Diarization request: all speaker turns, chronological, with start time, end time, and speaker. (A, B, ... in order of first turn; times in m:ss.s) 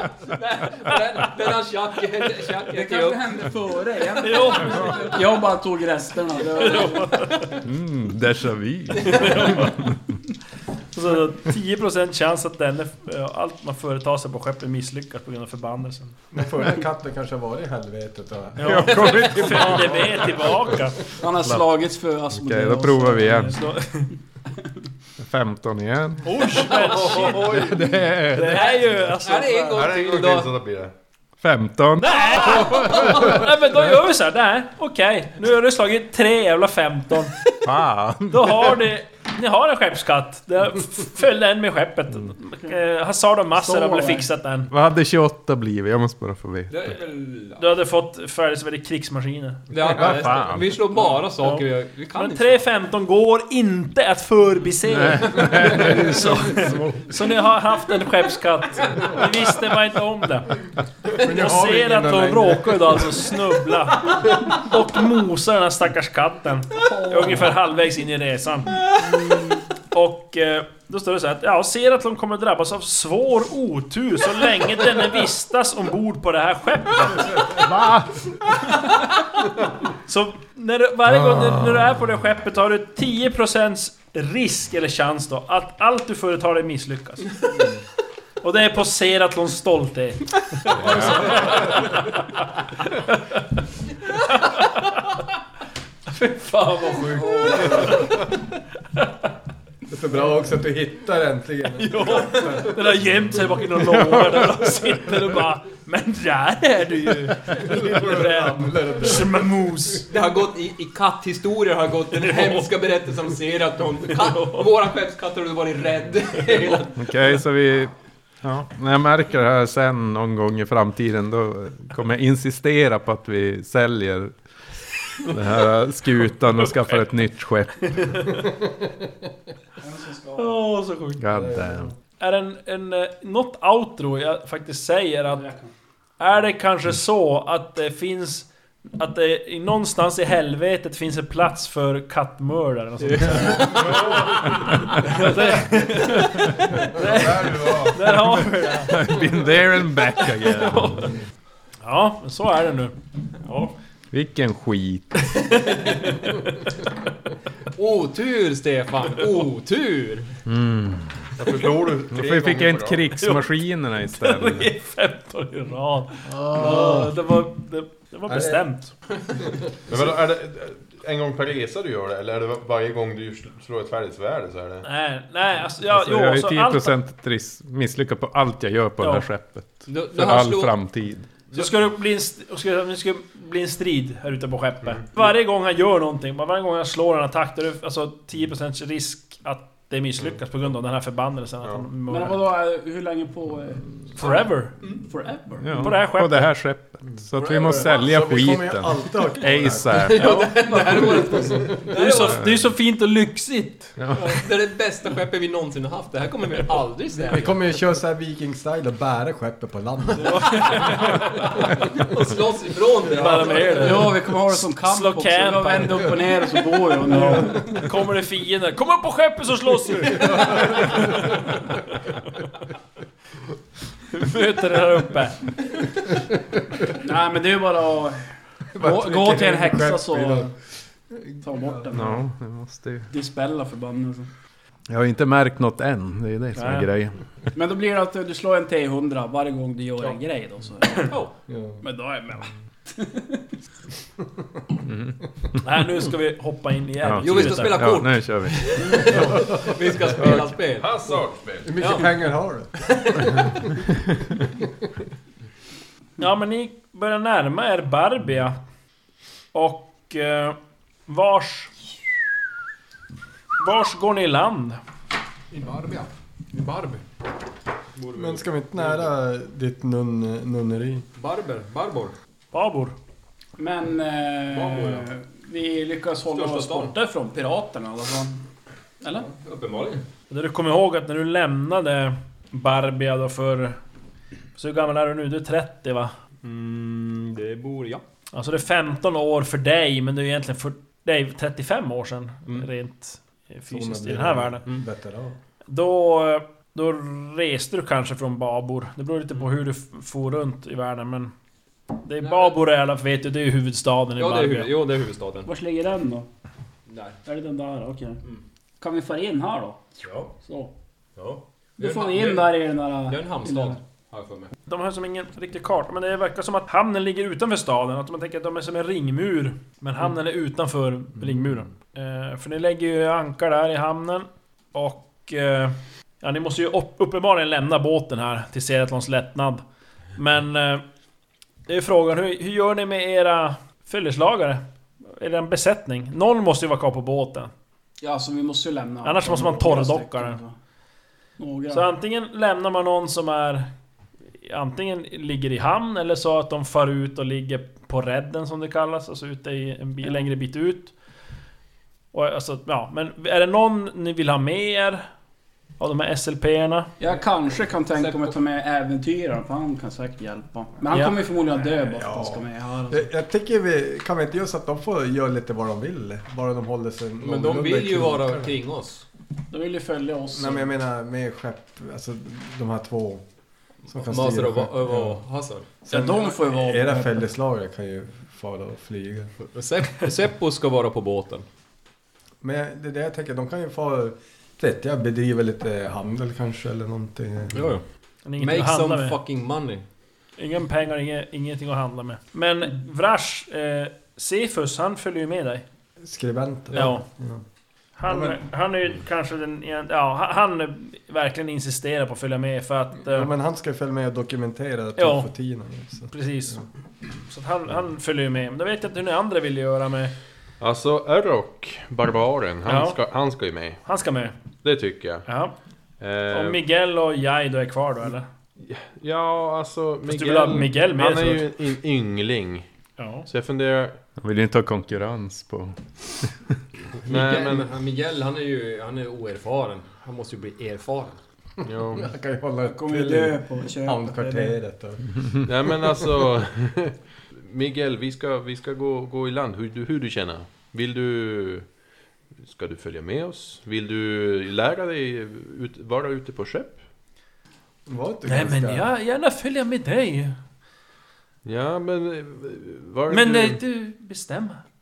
0:00.3-0:03.4 A
0:02.7-0:07.5 B
0:04.2-0:05.1 C
0:06.6-0:07.6 C
0:07.6-0:09.9 D
0:09.1-0:09.8 C
0:10.9-0:16.2 C
0:16.3-0:20.9 E
0:18.6-0:21.0 C
0:18.6-0:20.2 D
0:21.2-0:23.7 B
0:21.4-0:21.7 D
0:22.3-0:23.6 D
0:23.5-0:24.1 C
0:25.2-0:26.3 D
0:26.2-0:27.6 C
0:26.8-0:27.9 F
0:27.5-0:28.7 D
0:28.3-0:29.9 C
0:28.4-0:30.6 A
0:29.7-0:30.9 F
0:31.4-0:33.2 D
0:32.0-0:37.4 C
0:37.6-0:38.7 D
0:38.3-0:44.7 C
0:43.5-0:44.3 B
0:44.7-0:46.9 D
0:46.7-0:47.8 A
0:47.6-0:49.7 C
0:49.7-0:52.6 A
0:49.8-0:50.7 D
0:51.4-1:00.6 C
0:54.9-0:57.2 D
1:01.2-1:03.2 E
1:01.2-1:08.8 C
1:06.8-1:07.5 B
1:09.0-1:09.6 B
1:09.9-1:17.7 C
1:17.7-1:18.0 D
1:18.8-1:19.2 C
1:20.1-1:27.4 C
1:21.1-1:21.9 D
1:28.4-1:32.2 C
1:30.8-1:31.3 D
1:32.9-1:33.4 C
1:34.1-1:35.0 C
1:36.1-1:38.2 C
1:37.6-1:38.0 E
1:39.9-1:43.1 E
1:41.8-1:50.1 C
1:47.6-1:49.6 E
1:50.1-1:57.1 A
1:54.3-1:54.6 C
1:57.0-2:04.3 D
2:05.2-2:08.2 D
2:07.9-2:08.4 C
2:09.8-2:10.6 B
2:10.4-2:11.2 C
2:11.2-2:11.9 D
2:11.3-2:11.9 E
2:12.2-2:15.5 C
2:15.4-2:15.7 B
2:16.2-2:29.2 C
2:23.0-2:24.5 A
2:26.9-2:27.9 E
2:28.2-2:31.1 D
2:31.8-2:33.0 C
2:33.4-2:33.7 A
2:34.1-2:35.5 D
2:37.8-2:40.3 A
2:40.5-2:41.2 D
2:41.4-2:43.1 F
2:42.1-2:44.7 D
2:43.2-2:43.5 C
2:44.1-2:48.9 C
2:46.3-2:47.2 E
2:48.3-2:48.6 E
2:49.9-2:54.9 F
2:54.8-2:57.0 C
2:55.9-3:01.3 D
2:59.0-2:59.3 C
2:59.9-3:00.8 A
3:01.5-3:12.4 C
3:11.6-3:11.9 F
3:12.1-3:16.0 B
3:14.2-3:14.8 C
3:15.6-3:20.4 D
3:15.8-3:16.5 C
3:17.4-3:18.0 A
3:17.7-3:20.1 E
3:19.9-3:22.4 A
3:20.2-3:20.5 C
3:20.2-3:21.6 B
3:21.5-3:21.8 E
3:21.9-3:24.0 C
3:22.3-3:22.7 D
3:24.0-3:24.3 D
3:24.1-3:27.8 A
3:27.2-3:30.9 E
3:30.2-3:31.5 C
3:31.1-3:34.1 A
3:33.1-3:36.1 C
3:33.8-3:37.8 B
3:37.0-3:41.8 C
3:37.2-3:37.8 E
3:44.1-3:45.6 C
3:47.0-3:48.3 B
3:48.8-3:50.6 E
3:48.8-3:50.5 B
3:51.1-3:51.9 E
3:51.4-3:52.2 B
3:51.9-3:53.1 D
3:53.1-3:54.3 B
3:54.9-3:57.2 D
3:56.6-3:56.9 C
3:57.6-4:01.2 B
4:01.1-4:01.3 A
4:01.5-4:01.8 E
4:01.8-4:03.4 B
4:04.9-4:05.2 D
4:05.6-4:07.9 C
4:07.0-4:09.2 D
4:07.2-4:11.2 A
4:09.1-4:10.2 E
4:10.2-4:10.5 D
4:10.7-4:11.7 F
4:11.6-4:13.5 E
4:11.8-4:12.2 A
4:12.9-4:13.4 A
4:16.2-4:18.6 C
4:19.5-4:21.7 C
4:23.6-4:24.8 C
4:25.5-4:27.0 A
4:28.0-4:29.1 A
4:28.1-4:31.1 E
4:31.2-4:32.1 A
4:32.5-4:33.0 C
4:33.6-4:38.4 B
4:34.5-4:35.1 A
4:36.3-4:37.0 A
4:39.0-4:39.3 B
4:39.1-4:40.1 A
4:40.3-4:43.8 C
4:44.6-4:46.2 C
4:46.4-4:48.0 A
4:48.3-4:54.6 C
4:53.7-4:55.4 E
4:55.7-5:01.3 C
5:01.9-5:04.8 C
5:02.2-5:02.5 A
5:04.2-5:05.5 A
5:05.5-5:06.3 B
5:06.9-5:07.2 A
5:07.2-5:08.2 B
5:08.8-5:09.8 B
5:10.0-5:10.3 A
5:10.4-5:10.7 B
5:11.2-5:14.5 A
5:11.8-5:13.8 B
5:14.7-5:29.6 C
5:30.2-5:30.8 C
5:31.7-5:37.5 C
5:38.0-5:40.6 B
5:39.0-5:40.4 C
5:41.4-5:41.9 B
5:41.7-5:43.7 C
5:44.4-5:50.9 C
5:52.1-5:55.1 C
5:55.8-5:56.9 C
5:57.0-6:03.1 B
5:57.1-5:58.4 A
6:00.9-6:01.2 C
6:02.0-6:08.5 E
6:07.2-6:09.0 A
6:09.5-6:10.7 B
6:10.4-6:13.2 E
6:13.9-6:15.2 E
6:13.9-6:15.7 A
6:15.8-6:19.3 E
6:15.9-6:17.3 B
6:19.4-6:21.5 A
6:22.4-6:27.7 E
6:27.5-6:27.8 A
6:28.2-6:29.2 C
6:28.4-6:29.8 A
6:30.4-6:35.6 C
6:36.0-6:37.4 E
6:36.7-6:37.1 C
6:38.0-6:43.3 C
6:38.1-6:38.4 E
6:43.1-6:46.6 E
6:45.0-6:45.3 C
6:46.1-6:46.6 C
6:47.3-6:50.1 C
6:50.6-6:53.8 F
6:52.6-6:53.0 C
6:53.8-6:54.4 C
6:54.6-6:55.3 F
6:55.3-6:55.5 C
6:56.0-6:56.6 F
6:56.3-6:58.3 C
6:58.6-7:02.7 F
7:00.1-7:01.5 C
7:03.0-7:03.3 C
7:03.3-7:04.0 F
7:04.2-7:06.3 D
7:07.1-7:07.7 F
7:07.1-7:11.2 A
7:11.6-7:12.1 F
7:11.9-7:15.3 E
7:12.6-7:14.6 B
7:15.4-7:21.7 F
7:22.4-7:26.8 F
7:27.9-7:28.9 E
7:28.3-7:30.4 C
7:31.4-7:33.6 F
7:33.1-7:34.6 C